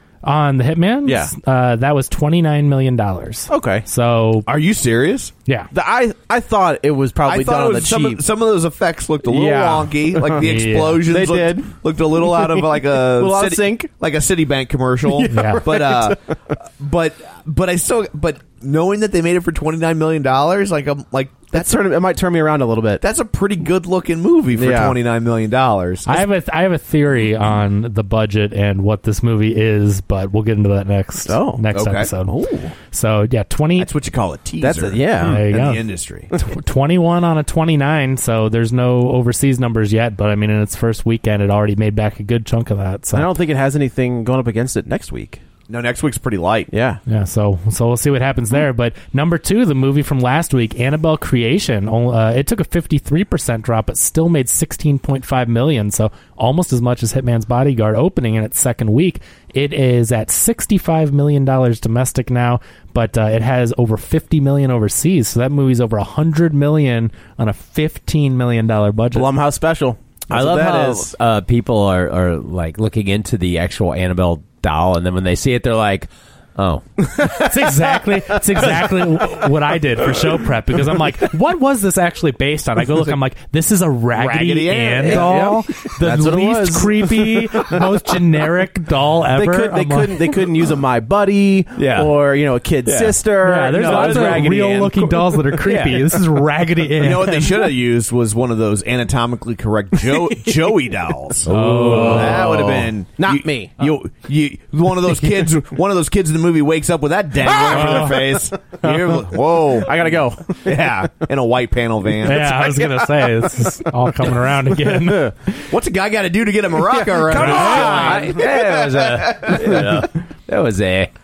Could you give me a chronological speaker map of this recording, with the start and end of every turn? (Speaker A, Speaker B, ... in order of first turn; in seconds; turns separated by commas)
Speaker A: 0.2-4.5, Speaker B: 1.1-1.3, Speaker B: 3.5-3.9, Speaker C: 4.5-5.3, Speaker B: 5.7-8.2, Speaker C: 7.2-21.8, Speaker B: 9.2-10.5, Speaker A: 10.4-11.0, Speaker B: 11.1-13.9, Speaker B: 15.1-16.2, Speaker A: 15.3-15.7, Speaker B: 21.5-23.0, Speaker C: 23.0-26.3, Speaker B: 24.6-25.0, Speaker A: 26.1-32.3, Speaker B: 31.3-31.6, Speaker C: 31.7-32.1, Speaker B: 32.2-32.7, Speaker A: 32.9-33.9, Speaker C: 33.8-36.3, Speaker B: 34.6-35.4, Speaker A: 35.2-43.3, Speaker B: 43.1-45.4, Speaker C: 45.7-46.7, Speaker B: 46.7-47.0, Speaker A: 47.1-69.3, Speaker B: 69.1-71.1, Speaker D: 70.3-76.9, Speaker B: 77.1-77.8, Speaker A: 77.2-90.3, Speaker B: 78.5-79.4, Speaker C: 84.1-85.4, Speaker B: 85.0-87.8, Speaker B: 89.3-95.5, Speaker D: 91.8-92.1, Speaker D: 92.8-93.2, Speaker A: 93.4-97.5, Speaker D: 93.8-94.5, Speaker D: 95.6-96.1, Speaker C: 97.0-112.6, Speaker D: 101.5-102.6, Speaker A: 101.5-102.5, Speaker B: 101.8-103.8, Speaker B: 107.5-110.7, Speaker A: 107.7-108.2, Speaker A: 112.2-115.7, Speaker B: 112.5-113.0, Speaker B: 114.8-115.3, Speaker C: 115.7-120.1, Speaker B: 116.8-118.7, Speaker A: 117.3-118.1, Speaker D: 117.5-121.1